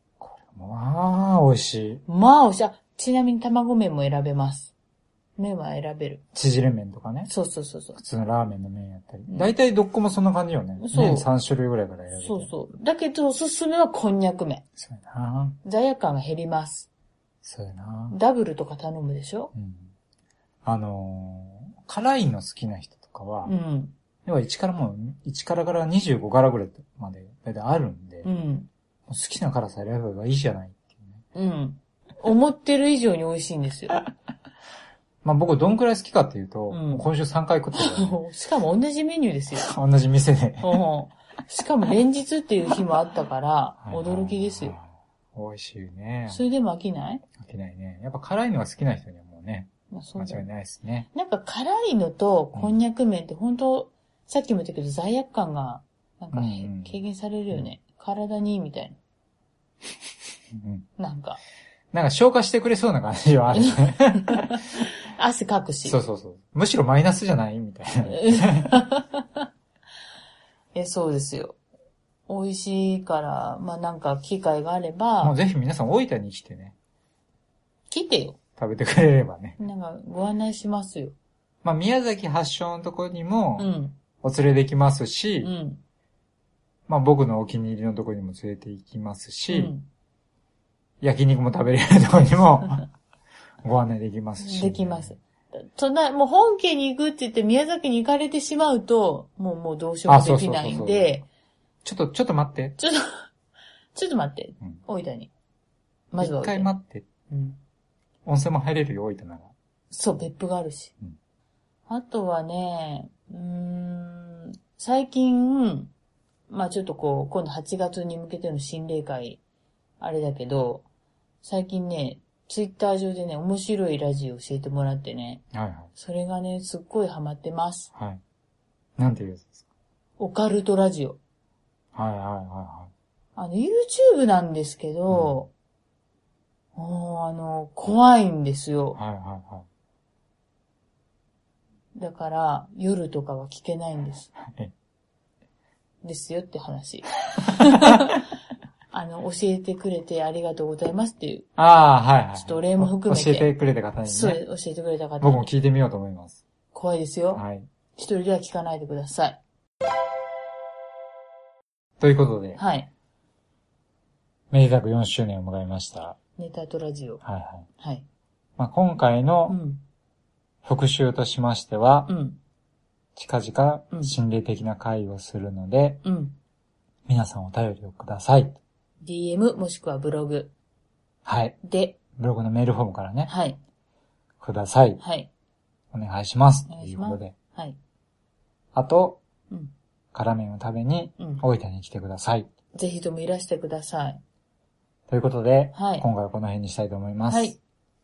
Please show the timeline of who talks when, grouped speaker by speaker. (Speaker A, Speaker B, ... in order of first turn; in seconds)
Speaker A: 0.2-2.0, 6.3-7.3, 8.0-12.5, 14.8-15.6, 17.4-18.2, 19.6-19.9, 20.6-23.5, 24.2-28.3, 29.1-31.2, 35.2-38.2, 39.6-40.8, 43.8-46.4, 47.4-51.1, 56.3-57.0, 60.5-60.9, 61.9-64.5, 65.8-68.8, 75.2-76.8, 78.6-79.6, 81.6-83.7, 84.2-85.5, 86.9-89.7, 91.0-92.9, 93.6-95.2, 100.1-101.1, 101.8-102.8, 106.2-107.0, 108.3-109.5, 125.5-125.9, 128.0-128.2, 129.0-129.7, 131.9-132.9, 135.1-135.4, 138.9-139.7, 144.4-144.7, 147.4-148.1, 151.6-154.4, 155.2-156.4, 157.3-157.7, 162.0-162.6, 164.5-166.2, 167.2-167.7, 168.6-169.6, 170.6-172.1, 173.2-176.0, 177.1-178.6, 181.2-181.6, 182.2-183.3, 184.4-185.0, 185.9-187.3, 188.7-189.2, 190.1-192.5, 195.1-197.5
Speaker B: 2.1-4.7, 5.4-6.2, 7.3-8.0, 10.8-11.3, 12.1-14.6, 15.6-16.9, 18.1-19.5, 23.4-23.9, 28.2-28.7, 31.4-34.0, 36.7-37.1, 37.7-39.7, 40.6-44.8, 46.3-47.2, 49.9-50.5, 51.1-59.0, 61.0-61.4, 63.5-66.0, 68.0-69.5, 70.7-71.6, 72.3-75.3, 77.9-78.4, 79.6-81.2, 83.6-84.0, 85.4-85.8, 89.5-89.9, 94.4-101.3, 102.8-103.3, 103.9-105.3, 106.1-106.7, 107.3-107.6, 109.9-110.9, 111.9-115.9, 116.5-119.4, 120.0-120.9, 121.4-125.4, 126.0-127.9, 130.2-131.2, 133.4-135.5, 136.8-139.0, 141.9-144.3, 146.0-148.2, 148.9-151.5, 152.4-153.5, 154.1-155.5, 156.7-157.4, 157.9-159.4, 162.6-162.9, 166.4-167.2, 167.8-168.1, 169.5-169.8, 172.1-172.4, 176.0-176.4, 179.0-180.5, 181.6-182.0, 183.3-183.6, 185.0-185.3, 186.7-187.8, 191.2-191.4, 192.7-194.2, 195.7-196.1, 197.3-197.6